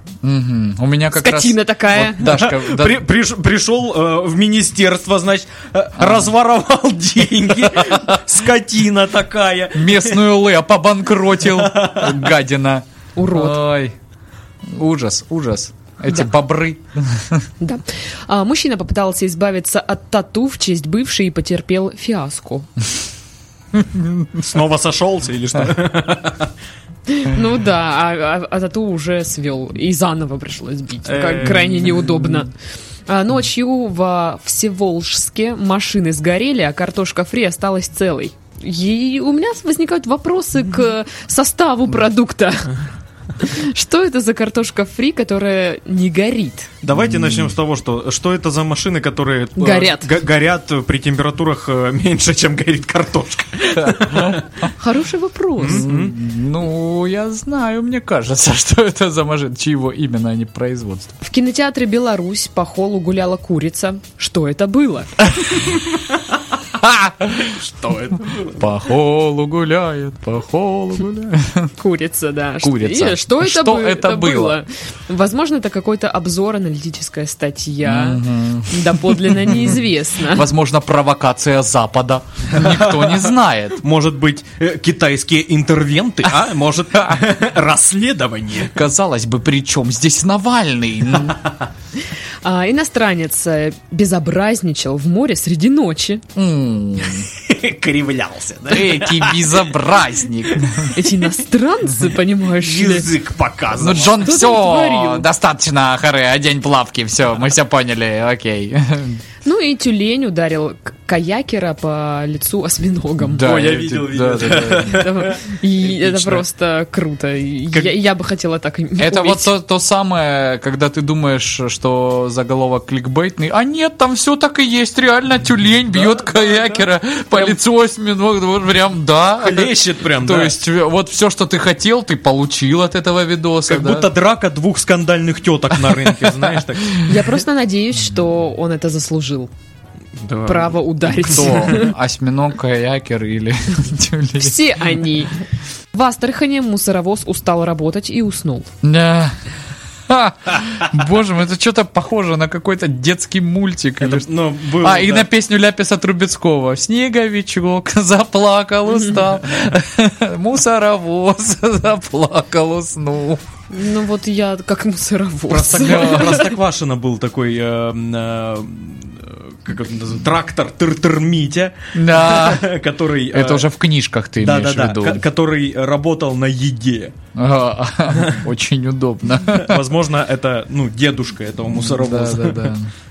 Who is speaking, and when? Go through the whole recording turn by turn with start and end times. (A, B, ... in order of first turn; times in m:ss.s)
0:00.2-0:03.0 A
0:01.1-0:02.4 B
0:02.2-0:10.2 C
0:06.0-0:06.3 A
0:07.9-0:08.2 A
0:09.7-0:13.9 A
0:11.4-0:12.2 C
0:13.2-0:13.6 B
0:14.7-0:17.4 A
0:17.6-0:22.7 B
0:23.8-0:24.4 A
0:24.4-0:26.5 C
0:27.1-0:32.5 B
0:31.0-0:32.2 C
0:33.1-0:42.7 B
0:43.4-0:46.7 B
0:46.8-0:54.5 C
0:49.6-0:50.1 B
0:53.8-0:54.4 A
0:54.8-0:55.8 B
0:55.6-0:56.1 C
0:55.6-1:01.2 A
1:01.2-1:05.3 B
1:06.7-1:11.7 A
1:07.5-1:08.6 C
1:11.8-1:20.5 B
1:12.6-1:14.6 A
1:17.8-1:19.7 A
1:20.2-1:23.8 A
1:22.5-1:28.8 C
1:28.7-1:31.4 A
1:32.4-1:36.2 B
1:36.3-1:37.3 A
1:37.2-1:39.8 C
1:38.7-1:40.9 A
1:40.9-1:43.1 B
1:42.5-1:44.3 C
1:43.7-1:49.2 A
1:44.2-1:45.3 B
1:49.4-1:53.5 B
1:53.2-1:55.2 A
1:53.4-1:56.4 C
1:54.8-1:59.5 B
1:59.0-2:14.1 A
2:05.9-2:06.8 C
2:09.4-2:10.6 C
2:13.7-2:17.1 C
2:17.0-2:19.5 B
2:20.2-2:20.8 C
2:20.4-2:21.9 B
2:21.2-2:24.6 A
2:24.4-2:25.3 B
2:25.9-2:28.7 B
2:28.8-2:29.4 A
2:30.1-2:34.2 A
2:34.0-2:35.3 C
2:34.8-2:43.4 A
2:38.9-2:39.2 B
2:43.7-2:46.5 B
2:45.5-2:53.7 C
2:45.7-2:46.5 A
2:51.9-2:52.7 A
2:53.3-2:55.2 A
2:54.4-2:57.1 C
2:57.3-2:59.8 A
2:59.5-3:02.7 C
3:01.7-3:02.9 A